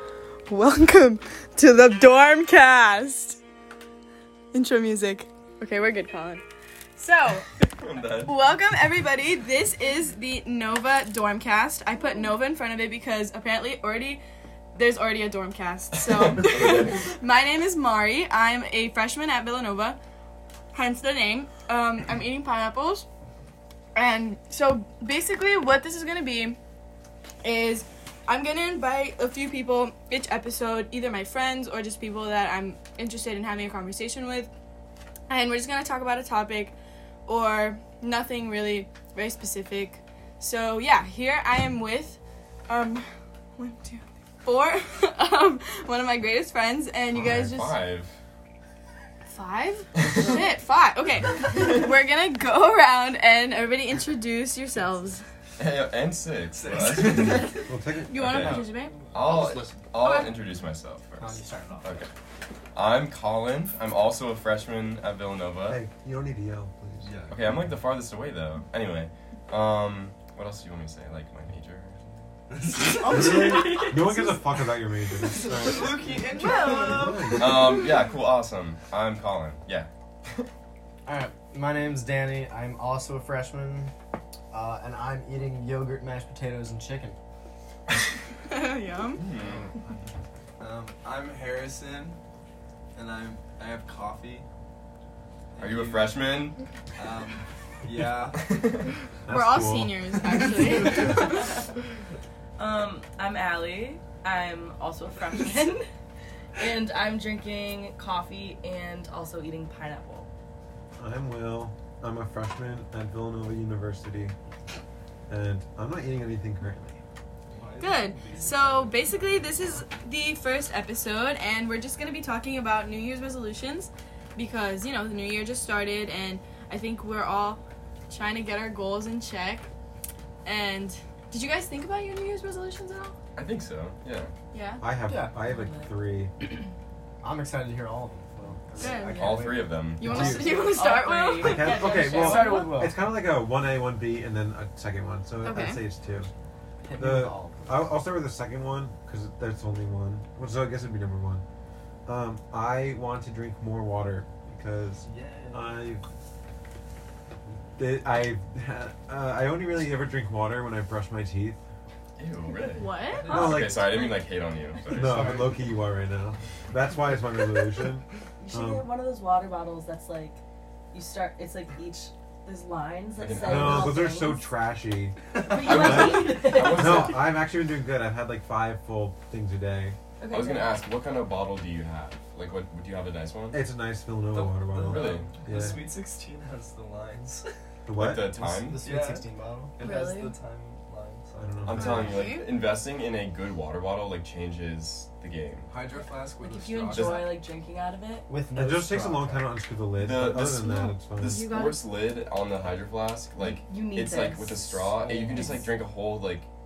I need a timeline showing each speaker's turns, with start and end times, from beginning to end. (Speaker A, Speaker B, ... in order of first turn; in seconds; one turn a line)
Speaker A: 0.5-3.4
Speaker A: 4.5-6.4
Speaker A: 7.0-7.6
Speaker B: 7.8-8.3
Speaker A: 8.1-14.2
Speaker A: 14.8-20.0
Speaker B: 15.9-17.1
Speaker A: 20.7-23.1
Speaker A: 23.9-26.6
Speaker A: 27.4-34.5
Speaker A: 35.3-36.7
Speaker A: 37.3-47.8
Speaker B: 47.1-48.2
Speaker A: 49.3-55.2
Speaker B: 55.6-57.5
Speaker C: 56.5-57.7
Speaker D: 57.7-58.5
Speaker A: 58.0-59.1
Speaker B: 58.1-62.1
Speaker C: 59.0-59.9
Speaker A: 59.9-60.4
Speaker E: 61.2-62.1
Speaker B: 62.7-65.8
Speaker D: 65.7-67.8
Speaker C: 67.0-67.5
Speaker B: 67.3-72.3
Speaker C: 72.5-73.7
Speaker E: 72.9-74.0
Speaker D: 73.1-76.2
Speaker F: 73.3-73.9
Speaker C: 75.2-77.4
Speaker A: 76.3-77.7
Speaker D: 76.7-77.7
Speaker B: 77.3-80.5
Speaker E: 81.1-83.9
Speaker E: 84.5-87.2
Speaker A: 88.5-89.3
Speaker B: 89.2-89.7
Speaker C: 90.6-92.2
Speaker C: 93.0-94.5
Speaker C: 95.5-96.3
Speaker B: 95.6-96.6
Speaker C: 97.0-98.6
Speaker B: 98.3-99.0
Speaker D: 99.3-101.2
Speaker A: 99.3-101.6
Speaker F: 100.9-101.5
Speaker F: 102.6-105.9
Speaker F: 106.6-110.3
Speaker D: 111.0-114.3
Speaker D: 115.3-117.0
Speaker C: 117.5-119.2
Speaker A: 117.8-129.7
Speaker A: 130.4-133.2
Speaker B: 133.3-134.3
Speaker A: 134.5-134.8
Speaker D: 134.8-136.6
Speaker E: 135.1-135.3
Speaker F: 135.4-135.9
Speaker E: 137.2-139.8
Speaker A: 138.8-142.4
Speaker B: 139.0-140.3
Speaker D: 140.0-140.8
Speaker F: 140.6-142.7
Speaker D: 141.4-146.3
Speaker E: 141.6-143.0
Speaker A: 145.4-145.8
Speaker E: 146.8-147.9
Speaker D: 147.0-151.4
Speaker D: 152.1-156.0
Speaker C: 155.0-155.7
Speaker D: 157.8-161.6
Speaker B: 162.2-165.3
Speaker A: 162.7-163.3
Speaker C: 163.1-163.7
Speaker D: 163.3-163.9
Speaker F: 163.4-164.1
Speaker D: 164.9-168.9
Speaker E: 164.9-165.7
Speaker F: 168.4-170.4
Speaker F: 170.9-174.5
Speaker B: 173.2-174.0
Speaker D: 173.4-180.0
Speaker C: 175.3-176.1
Speaker F: 175.4-177.1
Speaker B: 175.5-177.4
Speaker F: 180.2-180.8
Speaker B: 180.3-183.6
Speaker D: 183.5-185.9
Speaker B: 184.3-185.4
Speaker C: 184.6-187.5
Speaker D: 187.8-188.7
Speaker B: 187.9-188.8
Speaker E: 188.4-189.7
Speaker C: 188.8-192.1
Speaker F: 189.8-190.3
Speaker D: 191.4-192.1
Speaker B: 191.7-195.7
Speaker A: 191.8-192.5
Speaker C: 195.7-197.3
Speaker F: 196.4-198.3
Speaker E: 198.3-199.5
Speaker D: 198.5-201.4
Speaker B: 199.9-206.5
Speaker F: 200.6-201.8
Speaker F: 203.4-204.8
Speaker C: 204.8-205.7
Speaker F: 205.3-205.6